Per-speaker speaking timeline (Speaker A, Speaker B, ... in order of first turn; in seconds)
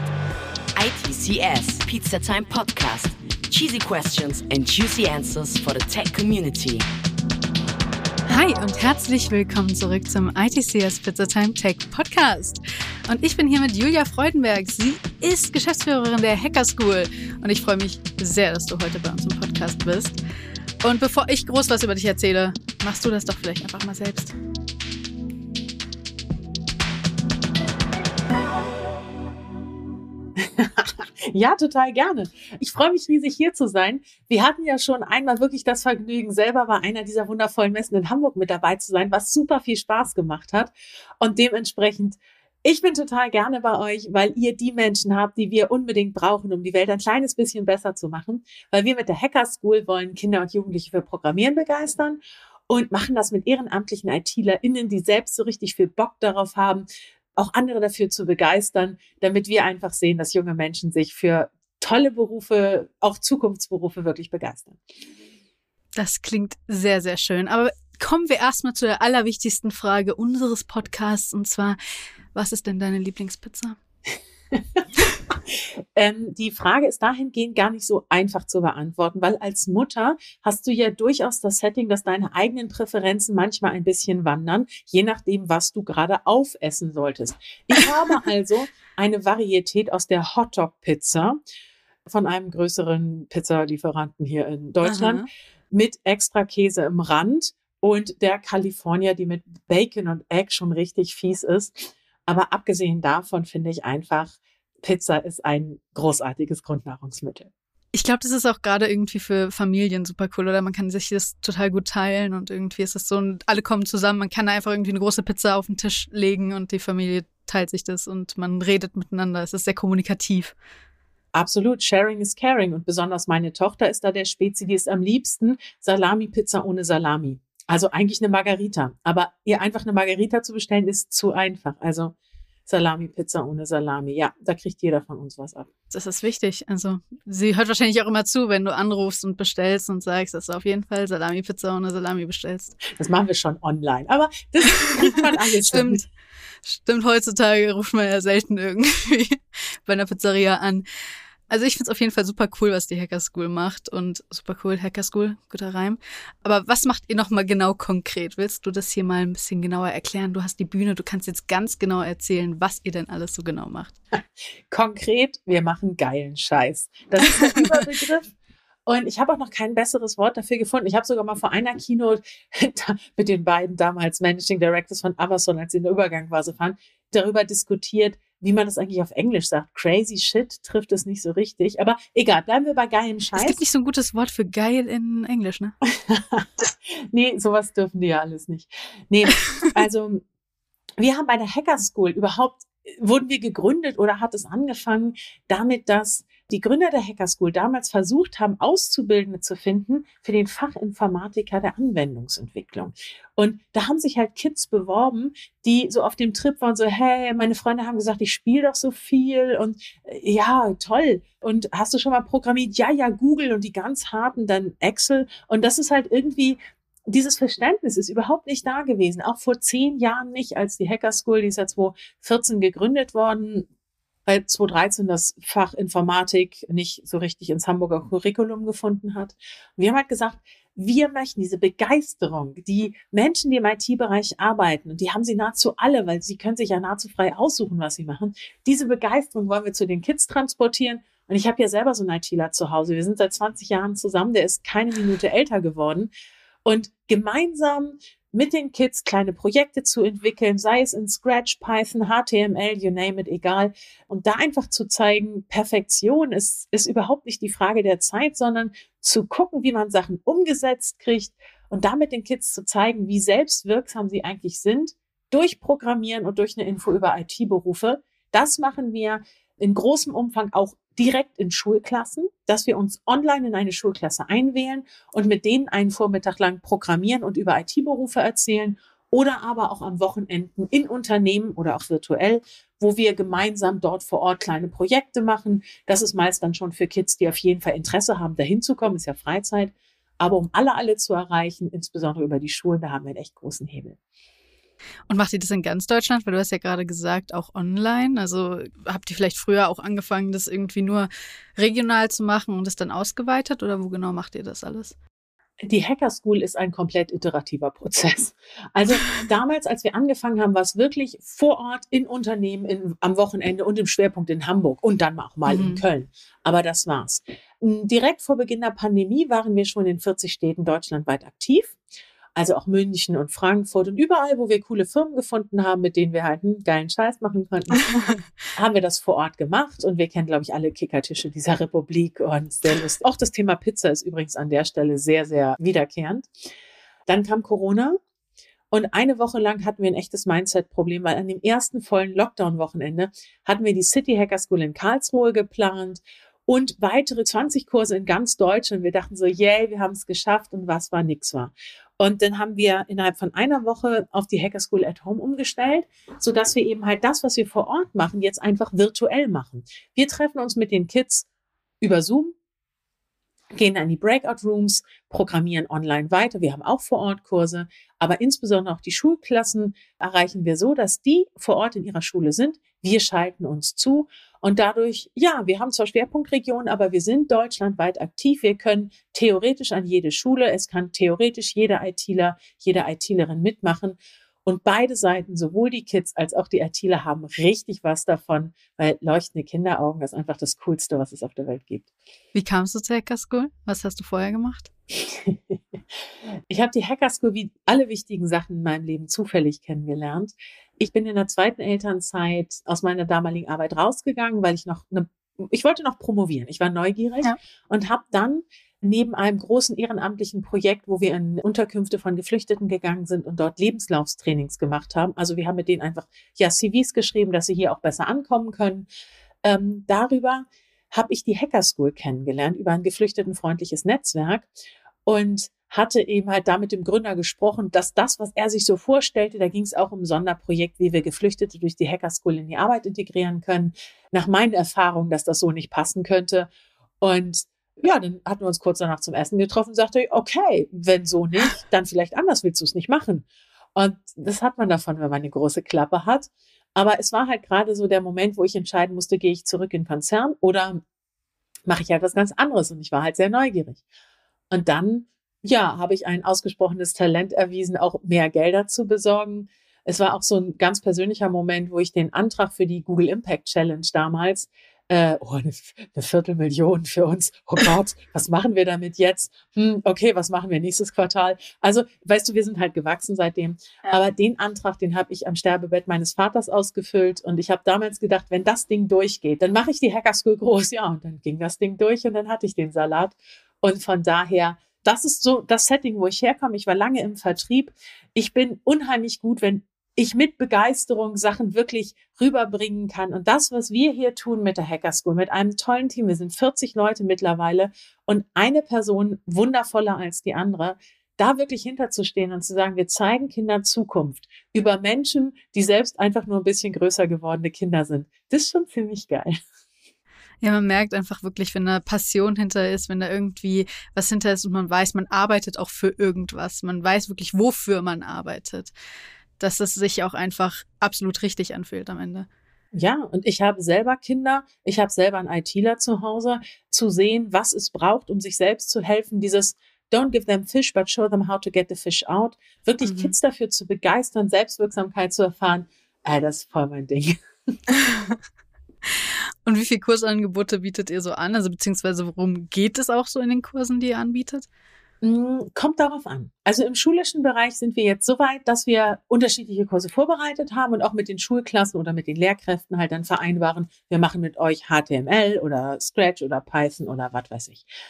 Speaker A: 0.8-6.9
Speaker B: 8.3-20.2, 20.8-24.4, 65.9-71.8, 72.3-73.8, 94.8-95.2, 107.9-120.5, 135.9-142.8, 145.7-146.0, 146.6-150.8, 151.5-163.9, 167.4-167.8, 183.3-185.7, 295.1-304.9, 315.5-315.8, 392.3-394.7, 510.4-518.7, 519.4-522.3, 532.8-533.1, 537.7-538.2, 538.9-544.5
Speaker C: 30.4-64.8, 75.5-91.4, 92.0-107.5, 121.3-132.1, 132.7-135.7, 142.9-146.0, 164.1-168.3, 168.9-183.6, 185.9-190.2, 191.0-223.7, 224.2-246.1, 246.6-294.0, 305.6-321.8, 322.4-327.9, 328.5-336.3, 337.1-338.0, 338.7-361.2, 361.8-362.3, 363.5-391.9, 395.0-395.6, 396.5-418.9, 419.4-424.5, 425.1-436.5, 437.0-450.8, 451.7-453.8, 454.5-509.3, 522.7-537.2, 545.0-557.6